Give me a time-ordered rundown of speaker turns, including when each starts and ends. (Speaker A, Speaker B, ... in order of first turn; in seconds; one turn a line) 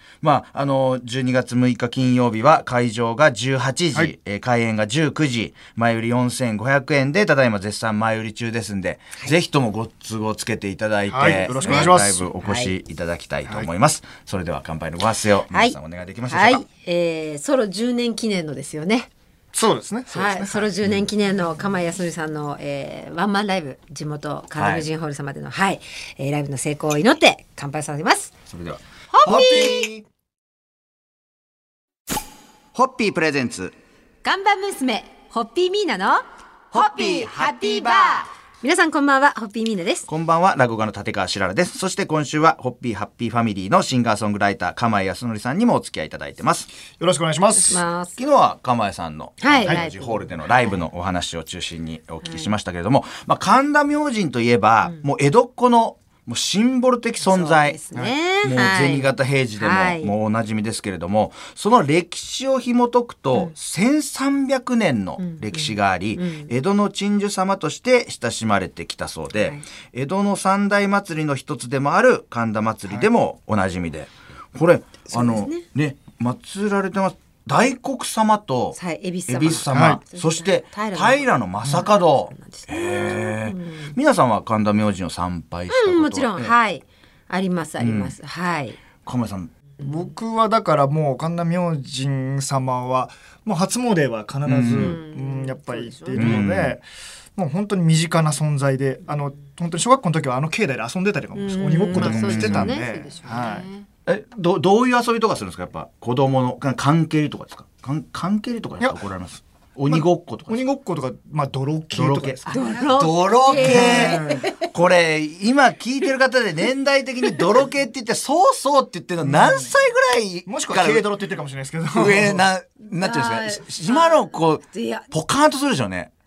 Speaker A: 0.2-16.6
Speaker B: 11.1-12.3
Speaker C: 11.6-12.7
Speaker C: 15.5-19.1
Speaker B: 19.5-20.7
Speaker C: 20.1-28.3
Speaker A: 24.6-24.9
Speaker A: 28.5-30.0
Speaker C: 29.1-29.9
Speaker A: 32.8-33.7
Speaker C: 34.2-40.1
Speaker A: 40.1-46.7
Speaker B: 47.0-47.8
Speaker C: 47.5-48.2
Speaker A: 48.2-86.5
Speaker C: 49.4-50.8
Speaker C: 52.2-52.5
Speaker C: 57.2-60.1
Speaker C: 65.2-66.5
Speaker C: 69.3-69.6
Speaker C: 75.1-75.7
Speaker C: 78.7-84.0
Speaker B: 79.7-80.0
Speaker C: 85.7-88.8
Speaker A: 87.8-88.1
Speaker A: 89.0-89.5
Speaker C: 89.8-90.1
Speaker B: 89.8-96.8
Speaker A: 94.4-95.0
Speaker C: 94.7-96.4
Speaker A: 96.2-96.8
Speaker B: 97.3-103.7
Speaker C: 101.3-103.9
Speaker A: 101.9-102.8
Speaker A: 104.1-110.6
Speaker B: 109.9-112.8
Speaker A: 111.9-121.0
Speaker C: 112.5-114.7
Speaker B: 113.5-114.4
Speaker C: 117.3-117.6
Speaker B: 119.2-119.7
Speaker B: 120.5-122.5
Speaker A: 121.9-126.1
Speaker C: 123.0-125.1